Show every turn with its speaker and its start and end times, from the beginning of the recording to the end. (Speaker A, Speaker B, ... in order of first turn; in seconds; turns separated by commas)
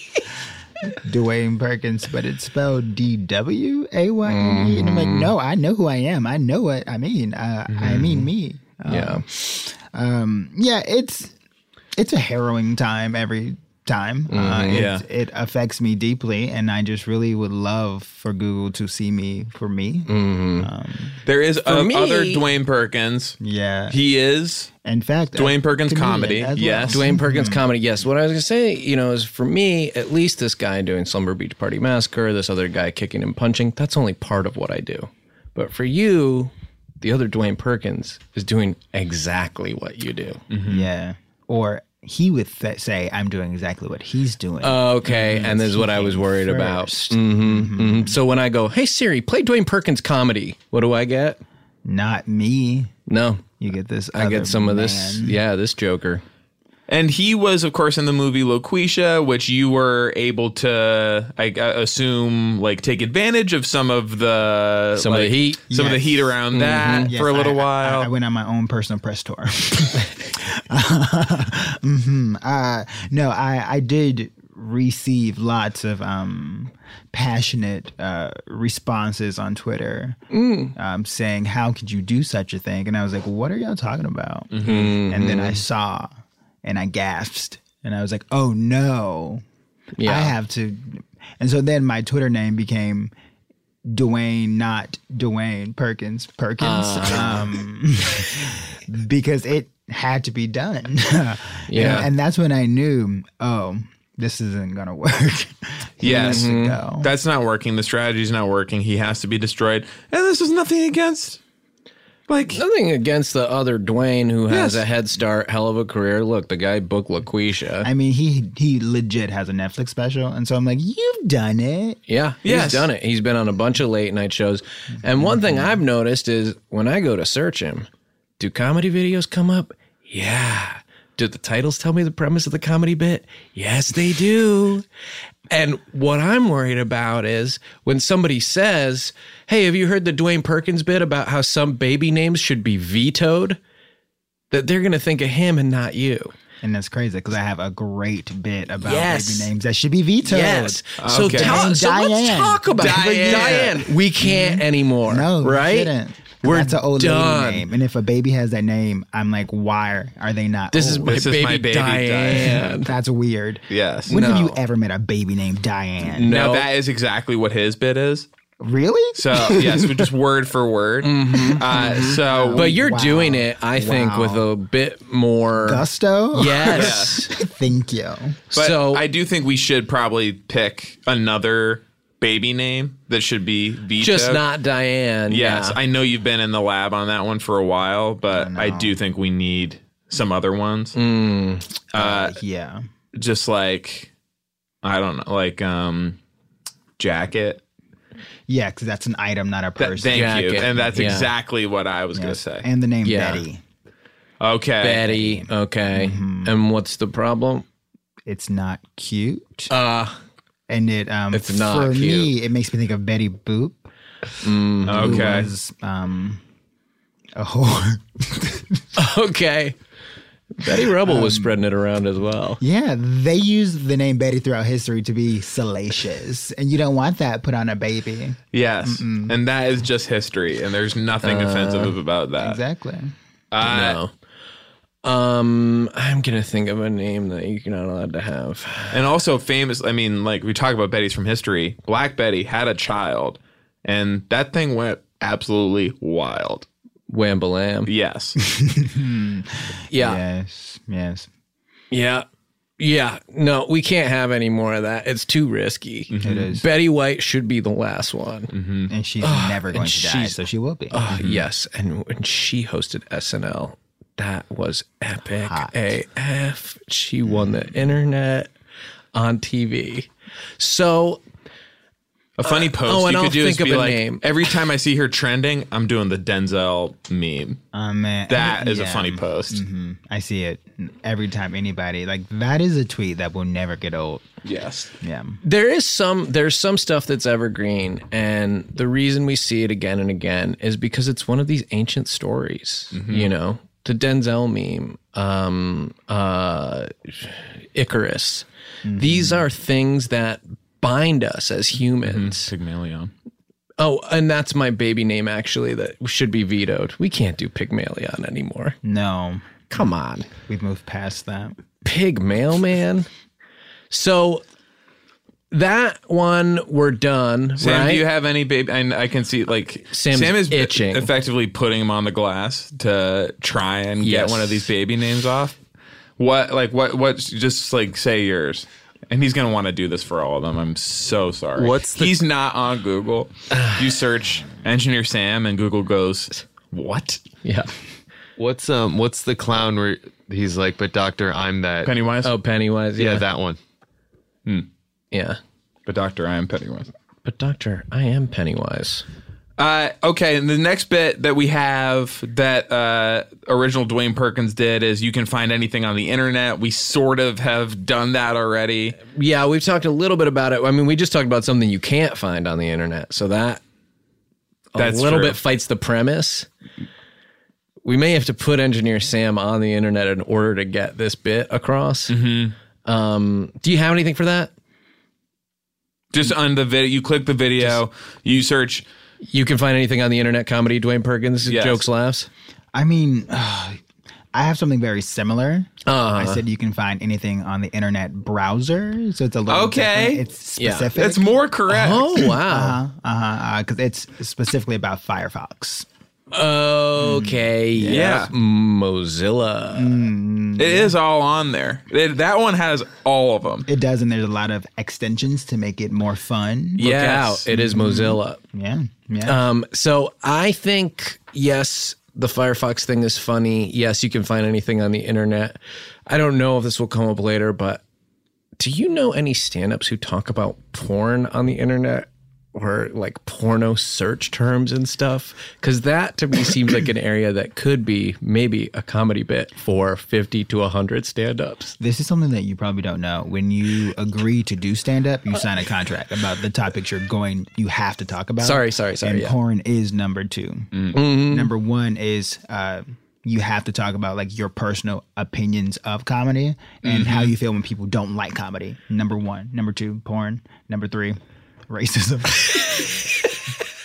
Speaker A: 0.8-11.3, Speaker B: 4.2-5.3, Speaker C: 7.7-8.2, Speaker B: 8.9-9.2, Speaker A: 12.0-21.2, Speaker B: 14.3-14.9, Speaker C: 14.7-15.0, Speaker B: 20.1-20.7, Speaker C: 21.2-23.4, Speaker B: 21.6-22.4, Speaker A: 23.4-24.0, Speaker C: 23.9-24.7, Speaker A: 24.8-27.6, Speaker C: 25.4-27.0, Speaker B: 26.9-40.4, Speaker C: 40.5-40.9, Speaker A: 40.7-48.2, Speaker B: 44.6-51.4, Speaker A: 51.8-52.9, Speaker B: 53.1-53.4, Speaker A: 53.6-55.4, Speaker B: 54.1-56.2, Speaker C: 56.9-68.1, Speaker B: 65.0-65.6, Speaker A: 65.7-66.4, Speaker B: 66.5-67.1, Speaker A: 67.1-80.2, Speaker B: 80.3-80.8, Speaker A: 80.8-89.4, Speaker C: 84.5-85.0, Speaker B: 84.6-85.6, Speaker B: 90.0-90.4, Speaker A: 90.0-93.1, Speaker A: 93.8-107.1, Speaker B: 96.6-97.5, Speaker B: 101.7-102.1, Speaker C: 106.0-106.5, Speaker B: 106.0-106.8, Speaker C: 107.0-111.4, Speaker C: 112.3-112.6, Speaker B: 112.5-117.9, Speaker C: 114.5-114.8, Speaker A: 117.8-122.0, Speaker B: 122.1-127.9, Speaker C: 122.5-122.9, Speaker A: 125.1-125.7, Speaker B: 128.4-134.8, Speaker B: 135.5-143.6, Speaker B: 144.5-146.3, Speaker A: 146.6-161.3, Speaker B: 148.8-149.5, Speaker B: 150.2-157.7, Speaker C: 151.0-151.7, Speaker C: 152.7-153.8, Speaker B: 160.7-162.9, Speaker C: 161.0-162.8, Speaker A: 162.5-166.4, Speaker C: 163.7-164.2, Speaker B: 164.1-164.6, Speaker B: 166.1-166.7, Speaker C: 166.3-168.3, Speaker A: 168.6-169.9, Speaker C: 169.1-172.8, Speaker B: 171.0-177.3, Speaker A: 171.7-174.5, Speaker A: 175.6-178.4, Speaker C: 176.7-177.2, Speaker B: 178.5-179.1, Speaker C: 178.5-184.4, Speaker B: 184.0-185.8, Speaker C: 185.3-191.0, Speaker A: 188.3-189.0, Speaker B: 191.0-191.7, Speaker C: 191.9-192.4, Speaker A: 191.9-192.9, Speaker C: 193.1-194.1, Speaker C: 194.8-196.2, Speaker C: 197.0-197.6, Speaker A: 198.5-201.2, Speaker C: 199.8-202.7, Speaker B: 200.1-201.3, Speaker A: 202.1-203.6, Speaker B: 203.0-203.4, Speaker C: 204.4-205.1, Speaker B: 204.8-207.6, Speaker A: 205.0-206.5, Speaker A: 208.2-209.7, Speaker B: 209.7-210.2, Speaker A: 210.7-213.9, Speaker B: 211.3-212.3, Speaker B: 214.4-215.4, Speaker A: 214.8-216.4, Speaker C: 214.9-215.5, Speaker A: 217.4-218.8, Speaker B: 219.0-219.8, Speaker B: 220.6-222.6, Speaker A: 220.7-221.6, Speaker A: 222.6-229.4, Speaker C: 228.5-232.6, Speaker B: 231.2-232.0, Speaker A: 232.4-233.1, Speaker C: 233.5-234.0, Speaker B: 233.6-234.1, Speaker B: 235.0-239.0, Speaker C: 238.9-246.7, Speaker B: 247.1-247.9, Speaker C: 247.9-248.4, Speaker A: 248.4-251.3, Speaker B: 249.9-250.2, Speaker B: 251.9-252.2, Speaker B: 252.8-258.5, Speaker C: 256.1-256.4, Speaker A: 256.2-256.6, Speaker C: 258.5-258.9, Speaker A: 258.9-261.2, Speaker B: 259.2-260.4, Speaker B: 260.9-268.5, Speaker C: 261.2-261.4, Speaker A: 265.4-265.9, Speaker B: 269.1-271.2, Speaker C: 272.4-277.6, Speaker B: 272.4-274.2, Speaker A: 277.7-284.2, Speaker C: 278.3-279.6, Speaker C: 284.4-284.9, Speaker A: 285.0-285.4, Speaker B: 285.4-298.5, Speaker C: 292.9-293.3, Speaker A: 298.9-299.5, Speaker B: 299.0-302.5, Speaker C: 302.0-303.1, Speaker B: 303.8-308.8, Speaker A: 308.8-309.7, Speaker B: 309.7-310.3, Speaker A: 310.5-311.6, Speaker B: 311.8-313.1, Speaker B: 313.9-314.4, Speaker B: 315.5-318.0, Speaker C: 317.6-325.5, Speaker B: 319.9-321.1, Speaker B: 324.0-324.7, Speaker C: 326.2-337.2, Speaker D: 331.6-332.2, Speaker B: 337.4-337.7, Speaker D: 338.4-341.9, Speaker C: 341.8-342.3, Speaker B: 342.2-343.2, Speaker D: 343.0-343.6, Speaker B: 345.1-345.4, Speaker C: 345.9-346.9, Speaker B: 347.2-349.0, Speaker C: 349.6-359.0, Speaker B: 359.0-363.6, Speaker B: 364.7-366.5, Speaker C: 364.8-365.4, Speaker B: 367.8-372.1, Speaker C: 372.1-372.5, Speaker B: 372.9-374.5, Speaker C: 376.1-378.9, Speaker B: 379.2-382.3, Speaker C: 381.4-381.9, Speaker A: 382.7-383.8, Speaker A: 384.3-391.4, Speaker B: 385.9-386.4, Speaker C: 389.5-390.2, Speaker B: 390.6-390.9, Speaker C: 390.9-392.3, Speaker B: 391.7-392.8, Speaker A: 392.2-395.9, Speaker B: 396.3-400.0, Speaker A: 397.0-398.3, Speaker C: 397.9-398.3, Speaker A: 399.7-401.0, Speaker C: 400.6-403.7, Speaker A: 403.6-406.9, Speaker B: 406.8-408.4, Speaker C: 406.8-407.5, Speaker A: 407.5-409.4, Speaker B: 409.2-417.8, Speaker B: 418.6-431.8, Speaker A: 431.8-453.1, Speaker B: 438.4-439.4, Speaker B: 440.9-441.5, Speaker C: 446.8-447.3